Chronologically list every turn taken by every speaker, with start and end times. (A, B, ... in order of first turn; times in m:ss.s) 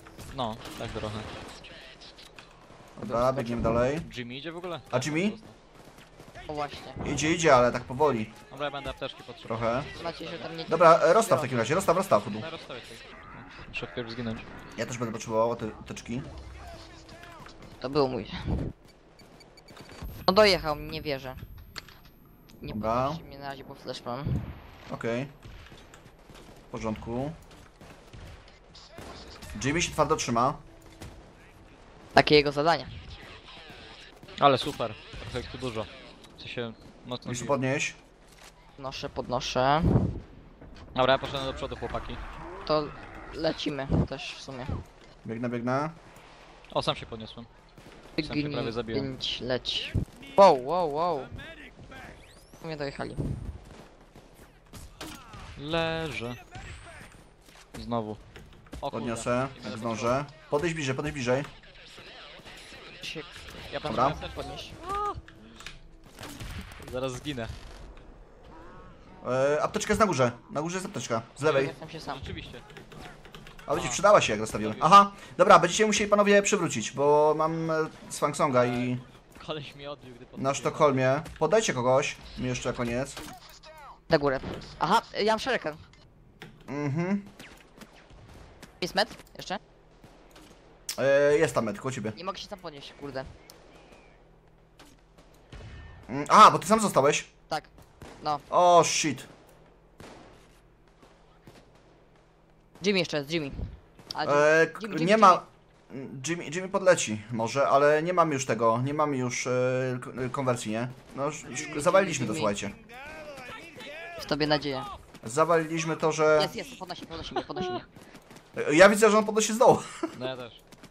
0:00.3-0:01.3 A
0:03.0-0:04.1 B
0:03.0-0:03.8 C
0:04.0-0:05.6 A
0:04.9-0:05.4 B
0:06.5-0:07.2 C
0:07.0-0:08.4 B
0:08.5-0:10.5 A
0:09.5-0:09.9 B
0:09.9-0:11.7 C
0:10.7-0:12.5 B
0:12.4-0:14.5 A
0:14.8-0:16.3 B
0:17.7-0:18.7 C
0:20.2-0:21.4 C
0:22.6-0:24.6 C
0:22.7-0:23.2 B
0:24.9-0:25.3 B
0:26.7-0:27.4 B
0:29.5-0:30.6 B
0:32.1-0:32.9 C
0:34.4-0:37.6 A
0:37.2-0:38.0 B
0:38.8-0:40.2 C
0:40.9-0:42.2 A
0:42.6-0:44.8 C
0:45.2-0:46.0 B
0:46.7-0:47.5 A
0:48.2-0:51.4 C
0:48.2-0:49.1 A
0:52.6-0:53.6 C
0:55.6-0:56.4 A
0:57.7-0:58.2 A
0:58.8-1:00.2 A
0:58.9-1:01.5 B
1:03.0-1:04.7 C
1:03.7-1:05.2 A
1:03.9-1:04.2 B
1:06.8-1:07.5 A
1:09.2-1:11.7 B
1:11.4-1:12.2 C
1:11.5-1:12.6 A
1:13.6-1:19.0 B
1:13.7-1:14.9 A
1:18.5-1:21.0 A
1:20.4-1:23.2 B
1:24.1-1:25.8 C
1:26.7-1:27.3 B
1:28.8-1:29.6 C
1:30.9-1:32.2 B
1:32.1-1:33.3 C
1:36.1-1:37.3 B
1:37.5-1:38.4 C
1:38.5-1:39.3 B
1:42.8-1:45.4 C
1:44.2-1:52.8 B
1:51.5-1:52.5 C
1:54.2-1:54.9 C
1:55.2-1:56.5 B
1:56.4-1:57.9 C
1:58.6-2:00.1 B
2:00.1-2:00.6 A